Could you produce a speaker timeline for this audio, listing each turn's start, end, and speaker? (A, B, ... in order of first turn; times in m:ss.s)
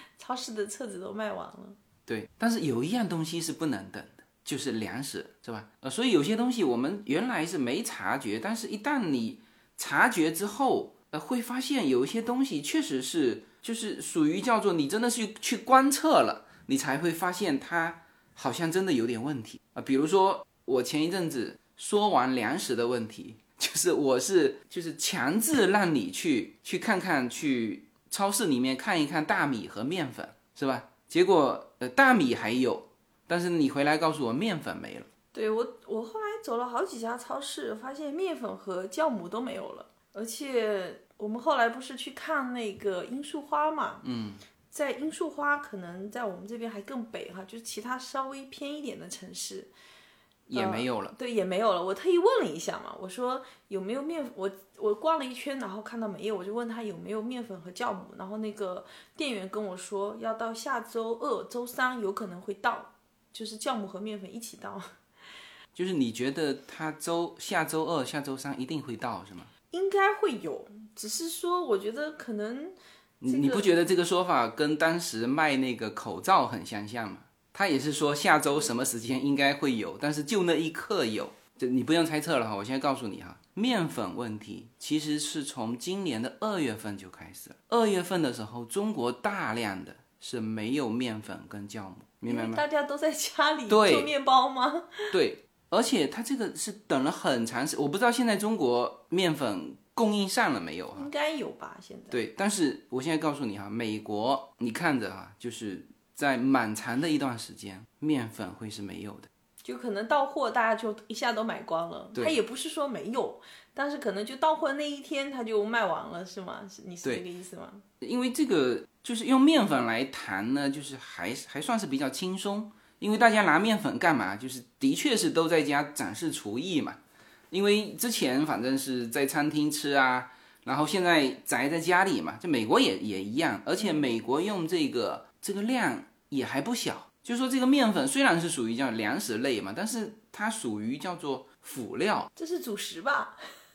0:00.2-0:01.8 A
0:02.0-0:35.1 B
0:35.3-0:44.0 A
0:44.0-0:44.4 B
0:44.7-0:49.7 A
0:50.5-0:51.2 B
0:50.5-1:04.9 A
1:05.7-1:09.5 B
1:09.7-1:12.8 A
1:13.2-1:32.6 B
1:13.3-1:13.7 A
1:32.2-1:35.1 A
1:33.7-1:34.1 B
1:35.1-1:41.1 B
1:41.0-1:42.2 A
1:42.1-1:49.3 B
1:49.6-1:57.8 A
1:58.0-2:07.0 B
2:07.5-2:22.3 B
2:22.4-2:23.4 A